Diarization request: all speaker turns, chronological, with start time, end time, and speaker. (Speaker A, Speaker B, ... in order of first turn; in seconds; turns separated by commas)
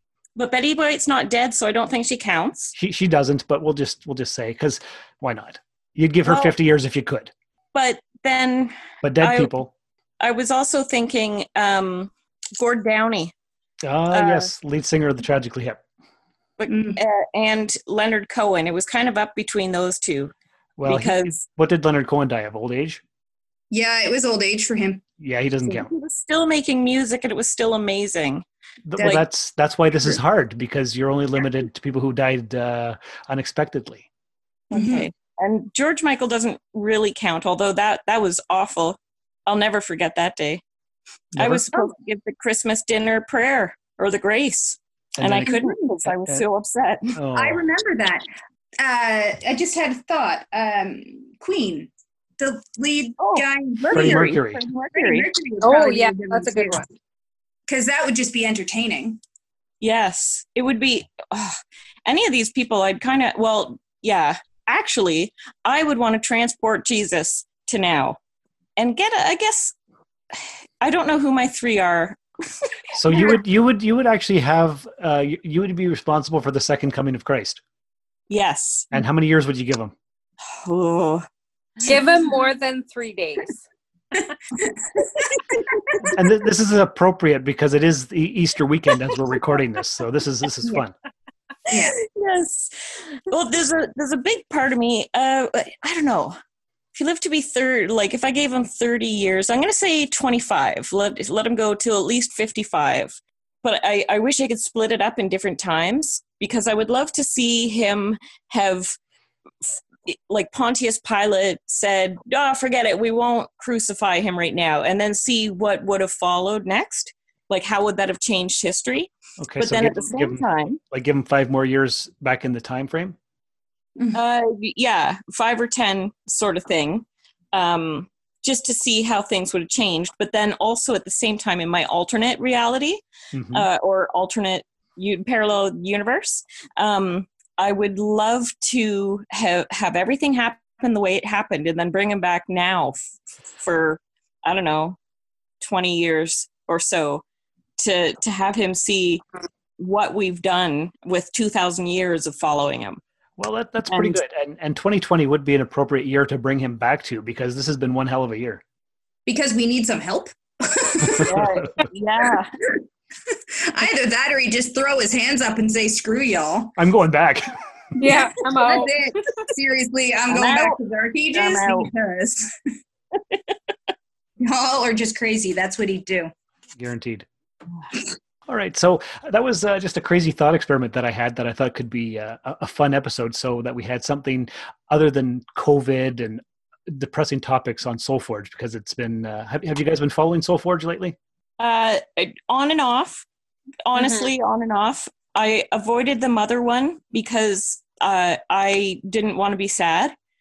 Speaker A: 0.3-2.8, Speaker B: 2.8-7.3, Speaker A: 6.2-6.5, Speaker A: 7.7-9.6, Speaker B: 9.0-9.7, Speaker A: 10.2-13.3, Speaker B: 13.8-15.8, Speaker A: 14.1-14.5, Speaker A: 16.6-20.3, Speaker C: 16.7-17.0, Speaker B: 20.8-23.0, Speaker A: 20.9-21.4, Speaker C: 23.7-25.0, Speaker B: 25.2-25.9, Speaker A: 25.6-28.4, Speaker B: 28.9-34.1, Speaker C: 29.0-29.2, Speaker A: 29.0-29.2, Speaker A: 34.7-40.6, Speaker C: 34.7-35.1, Speaker B: 41.4-41.9, Speaker A: 41.4-47.1, Speaker B: 45.2-45.5, Speaker C: 45.5-45.8, Speaker B: 46.0-46.5, Speaker B: 47.1-47.6, Speaker C: 47.3-48.2, Speaker C: 48.8-54.4, Speaker A: 53.2-55.3, Speaker B: 53.9-54.6, Speaker C: 54.9-56.9, Speaker D: 55.6-56.9, Speaker C: 57.7-59.2, Speaker A: 59.8-68.2, Speaker A: 68.8-69.8, Speaker A: 70.3-72.2, Speaker A: 72.9-73.4, Speaker B: 72.9-77.6, Speaker A: 78.3-78.9, Speaker B: 78.9-80.0, Speaker A: 80.6-81.2, Speaker C: 81.9-82.2, Speaker D: 81.9-83.6, Speaker C: 84.2-84.8, Speaker B: 86.1-90.9, Speaker C: 91.7-92.0, Speaker A: 91.7-96.3, Speaker A: 96.9-108.9, Speaker A: 109.6-120.8, Speaker B: 119.4-123.2, Speaker A: 124.1-133.0, Speaker B: 133.3-133.7, Speaker A: 133.5-145.0, Speaker A: 145.6-147.2, Speaker A: 147.8-149.2, Speaker A: 149.8-153.0, Speaker B: 153.4-158.6, Speaker A: 153.9-154.2, Speaker C: 159.3-161.3, Speaker A: 161.2-162.5, Speaker B: 161.3-161.8, Speaker C: 162.7-166.8, Speaker B: 166.8-167.5, Speaker D: 168.0-169.2, Speaker C: 168.1-172.5, Speaker A: 170.3-170.8, Speaker A: 171.3-171.9, Speaker C: 174.4-176.3, Speaker B: 176.8-177.3, Speaker B: 178.5-191.2, Speaker A: 191.6-193.2, Speaker A: 193.8-200.1, Speaker D: 193.9-194.3